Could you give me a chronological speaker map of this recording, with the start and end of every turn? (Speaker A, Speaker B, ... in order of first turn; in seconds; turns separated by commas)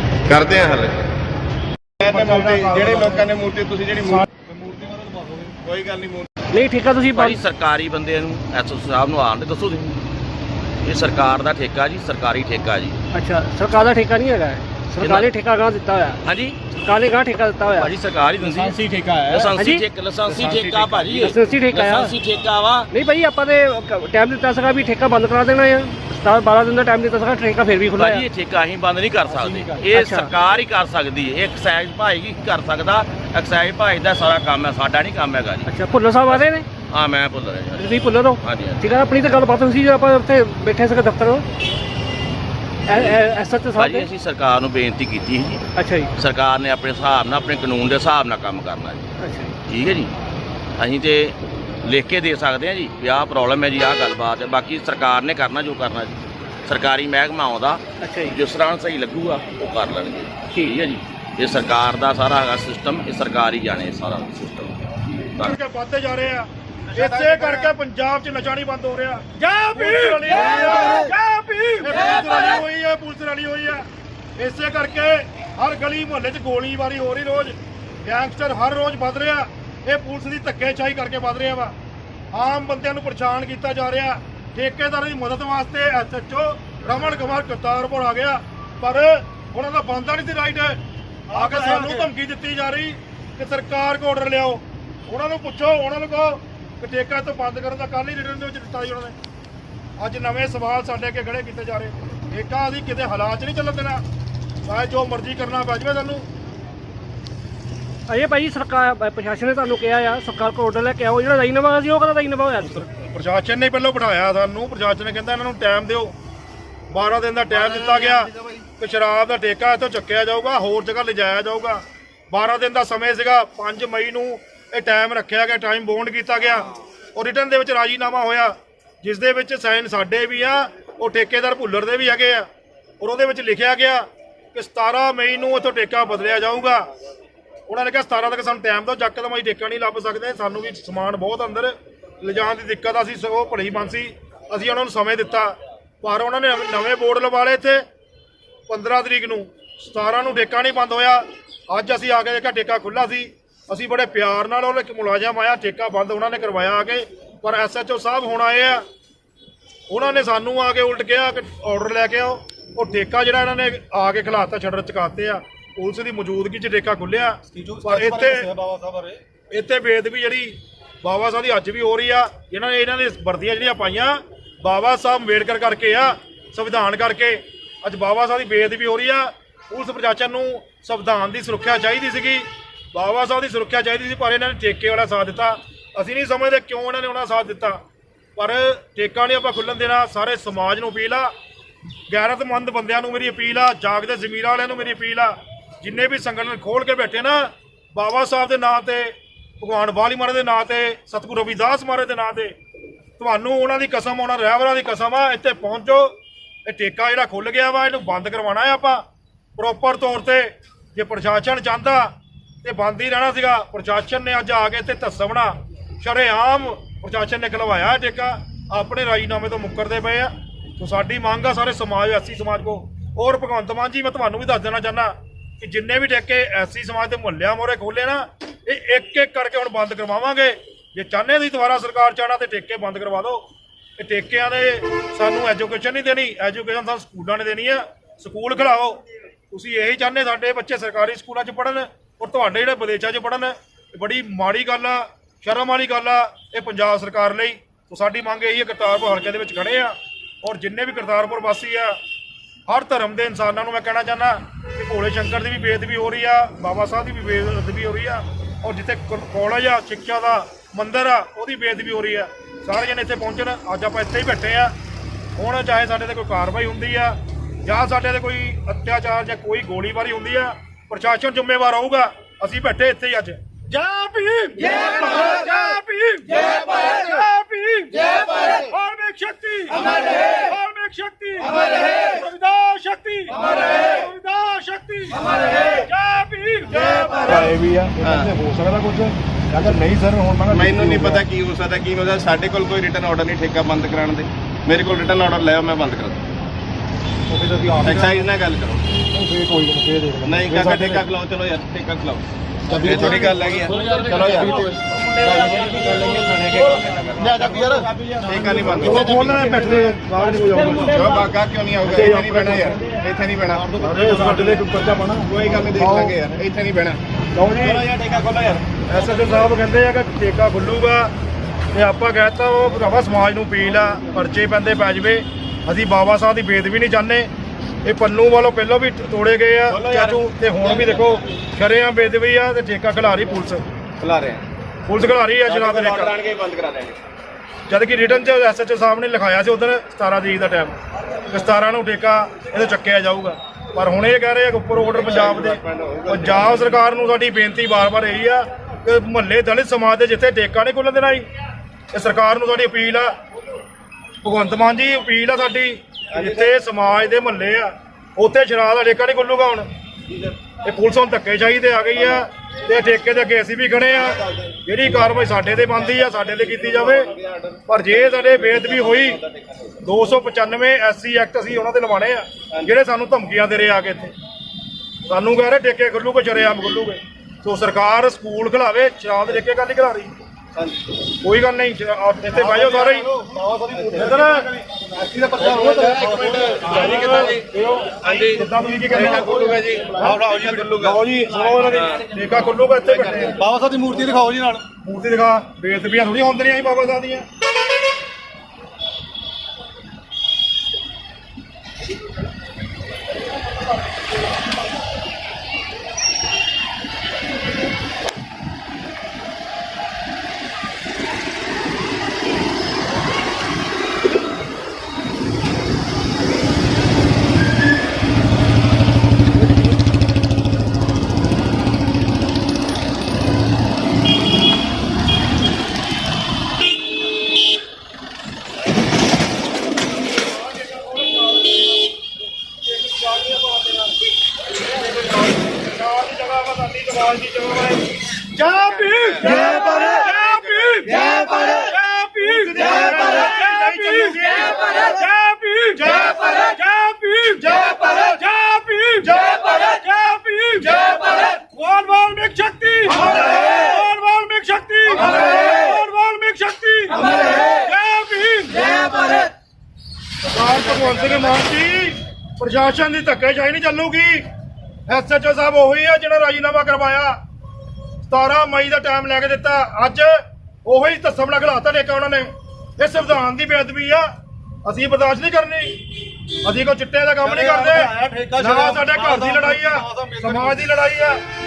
Speaker A: 0.3-1.1, Speaker B: 2.0-3.3, Speaker A: 2.0-4.2, Speaker C: 4.5-5.5, Speaker A: 5.6-6.3, Speaker D: 6.5-7.4, Speaker E: 7.1-10.0, Speaker E: 10.8-13.0, Speaker D: 13.1-16.2, Speaker E: 15.0-15.3, Speaker E: 16.2-16.7, Speaker D: 16.7-17.9, Speaker E: 17.8-22.9, Speaker C: 18.6-19.5, Speaker D: 19.6-19.8, Speaker D: 21.1-22.1, Speaker D: 22.9-28.3, Speaker E: 28.0-35.7, Speaker D: 29.9-30.3, Speaker D: 35.7-36.6, Speaker E: 36.3-37.9, Speaker D: 37.8-41.5, Speaker E: 38.4-38.8, Speaker D: 42.9-44.1, Speaker E: 43.8-49.1, Speaker D: 45.8-46.1, Speaker D: 49.2-49.5, Speaker E: 49.7-50.1, Speaker E: 50.8-64.8, Speaker D: 58.0-58.4, Speaker B: 65.4-71.1, Speaker A: 66.9-67.7, Speaker D: 69.4-72.2, Speaker B: 71.8-73.9, Speaker B: 74.4-81.8, Speaker B: 82.3-90.8, Speaker B: 91.3-99.2, Speaker C: 91.3-92.0, Speaker B: 100.0-104.0, Speaker B: 104.7-106.3, Speaker D: 108.1-112.9, Speaker B: 112.9-116.2, Speaker B: 116.9-132.5, Speaker A: 117.7-118.3, Speaker B: 133.0-136.9, Speaker B: 137.7-147.8, Speaker B: 148.7-158.8, Speaker B: 159.9-168.5, Speaker C: 167.5-169.2, Speaker B: 169.5-187.8, Speaker B: 188.4-191.3, Speaker B: 192.1-202.6, Speaker B: 203.2-206.2, Speaker B: 206.7-209.0, Speaker B: 209.6-233.5, Speaker B: 234.0-239.0, Speaker B: 239.5-252.0, Speaker B: 252.7-264.7, Speaker B: 265.4-273.4, Speaker D: 273.7-275.1, Speaker B: 275.2-275.7, Speaker D: 275.8-278.4, Speaker B: 278.5-285.8, Speaker B: 286.7-287.5, Speaker C: 286.8-291.2, Speaker A: 288.0-288.3, Speaker A: 290.5-296.3, Speaker C: 297.3-298.3, Speaker A: 297.8-299.0, Speaker C: 299.1-301.0, Speaker A: 300.2-309.5, Speaker C: 302.7-305.8, Speaker C: 307.2-311.2, Speaker B: 308.7-311.0, Speaker A: 310.8-313.8, Speaker B: 311.9-312.8, Speaker C: 312.0-312.7, Speaker C: 313.6-315.4, Speaker B: 313.8-314.7, Speaker A: 315.2-317.0, Speaker B: 315.8-316.1, Speaker B: 317.4-317.8, Speaker A: 317.6-318.7, Speaker B: 318.9-321.1, Speaker B: 321.7-327.3, Speaker B: 327.8-333.6, Speaker A: 329.7-331.2, Speaker A: 334.0-334.4, Speaker B: 334.9-336.2, Speaker A: 335.4-337.0, Speaker B: 337.7-340.8, Speaker B: 341.3-351.3, Speaker A: 344.9-346.6, Speaker B: 351.9-353.1, Speaker B: 354.2-359.7, Speaker A: 356.1-356.5, Speaker B: 360.6-367.1, Speaker A: 364.0-365.1, Speaker A: 365.6-369.8, Speaker B: 367.7-369.2, Speaker B: 369.8-374.1, Speaker B: 375.1-380.2, Speaker A: 380.6-381.0, Speaker B: 381.2-383.1, Speaker C: 382.3-392.1, Speaker A: 383.7-384.2, Speaker B: 383.9-384.5, Speaker A: 385.4-387.5, Speaker B: 386.4-387.4, Speaker A: 388.0-392.1, Speaker B: 388.2-389.4, Speaker B: 391.9-393.4, Speaker A: 392.9-393.4, Speaker C: 393.4-394.6, Speaker B: 394.8-397.3, Speaker B: 430.6-431.3, Speaker B: 432.6-434.0, Speaker B: 434.7-437.9, Speaker D: 438.4-440.9, Speaker A: 438.8-439.4, Speaker B: 439.2-441.6, Speaker D: 441.6-443.5, Speaker B: 442.2-444.6, Speaker C: 442.6-443.2, Speaker D: 444.8-445.8, Speaker B: 445.8-446.6, Speaker B: 447.3-449.3, Speaker D: 449.5-450.3, Speaker B: 450.7-459.1, Speaker B: 460.3-464.3, Speaker B: 464.9-467.2, Speaker B: 468.1-474.1, Speaker B: 474.6-475.8, Speaker B: 476.4-481.2, Speaker C: 477.2-480.6